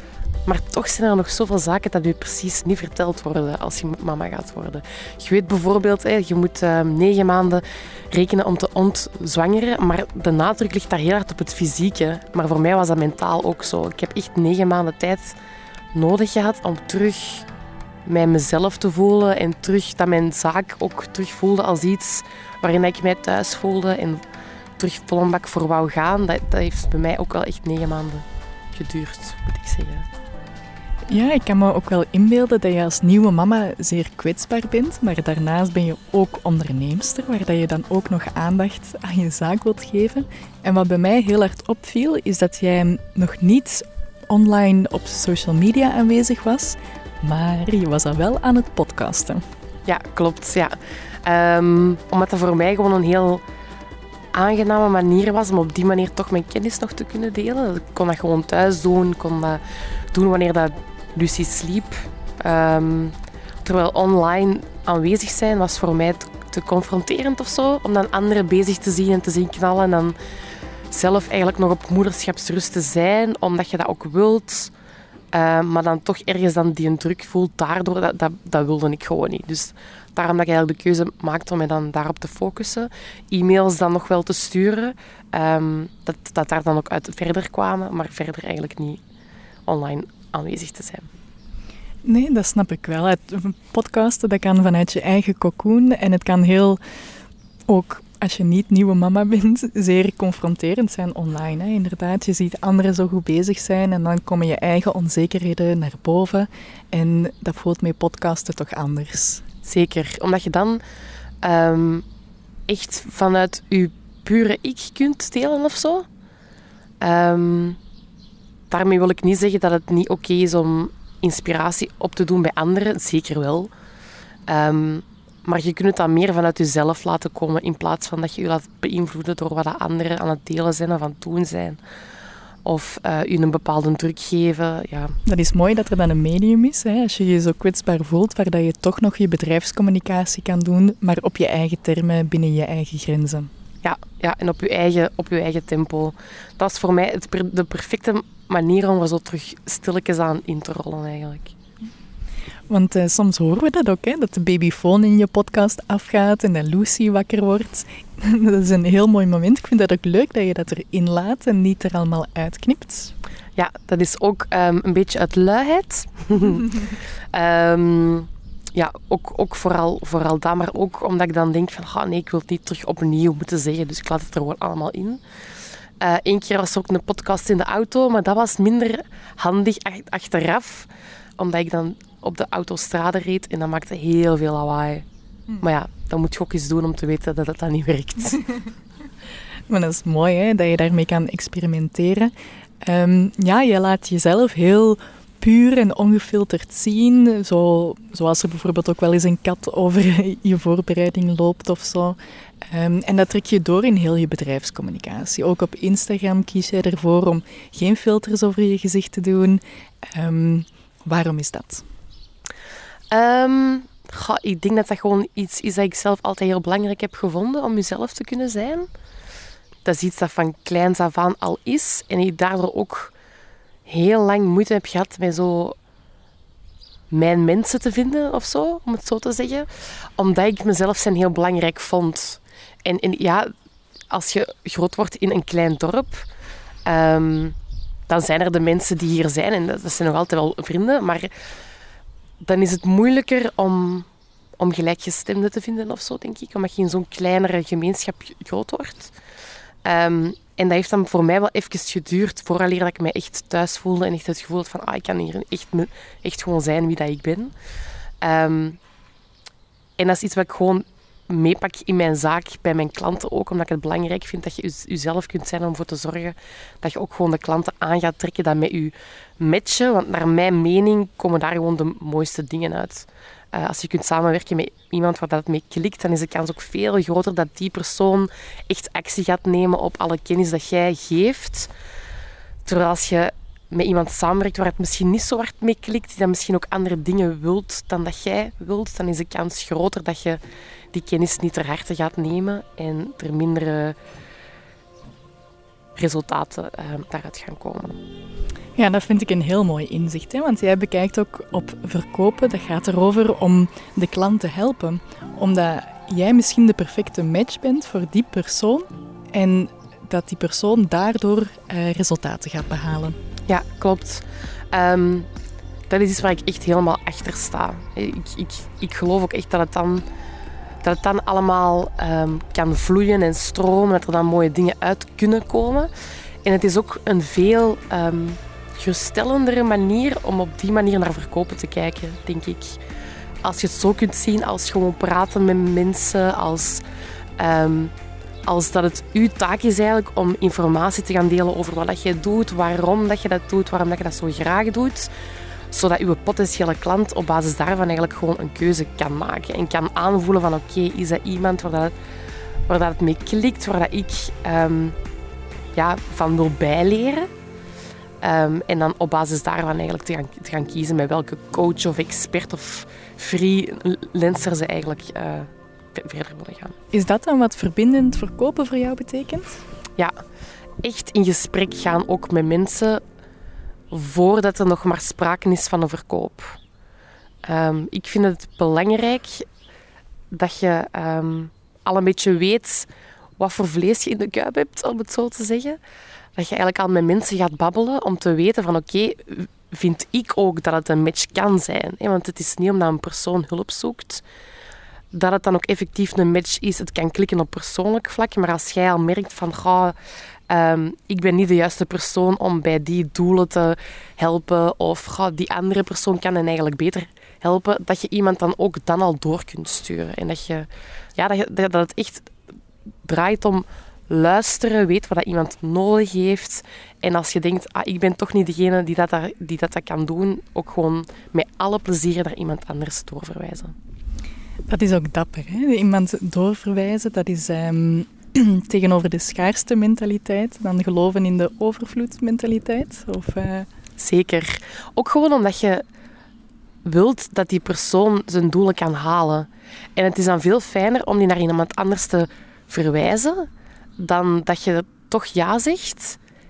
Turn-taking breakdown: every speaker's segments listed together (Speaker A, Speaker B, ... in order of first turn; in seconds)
Speaker A: 0.4-15.4, 15.9-17.5, 18.0-24.2, 24.8-30.1, 49.9-53.4, 54.3-59.6, 60.1-70.2, 70.9-74.7, 75.3-89.0, 89.7-91.1, 109.6-110.8, 111.4-112.0, 112.7-116.0, 117.0-117.8, 118.7-123.7, 124.5-131.8, 132.6-135.2, 143.8-151.5, 163.6-175.2, 176.0-185.1, 185.6-188.4, 213.1-218.9, 219.8-223.1, 223.8-225.8, 227.1-233.5, 234.1-236.3, 236.8-237.6, 238.1-241.3, 242.4-244.1, 244.6-249.1, 249.8-257.5, 258.2-258.8, 260.0-281.7, 282.6-290.4, 290.9-294.0, 295.9-298.0, 313.5-315.3, 315.9-320.1, 320.8-325.9, 326.4-332.8, 333.4-336.8, 337.4-337.9, 338.4-345.1, 345.7-351.9, 352.7-355.0, 355.7-357.3, 358.2-366.8, 370.8-373.0, 373.9-376.6, 377.4-379.5, 380.3-385.8, 386.3-394.2, 395.1-400.0, 400.5-412.3, 413.0-423.7, 434.0-435.8, 436.8-446.2
Speaker B: 31.1-49.4, 92.0-96.8, 97.7-109.4, 135.2-143.5, 152.7-163.1, 189.7-211.8, 298.8-313.2, 366.9-369.6, 424.7-433.7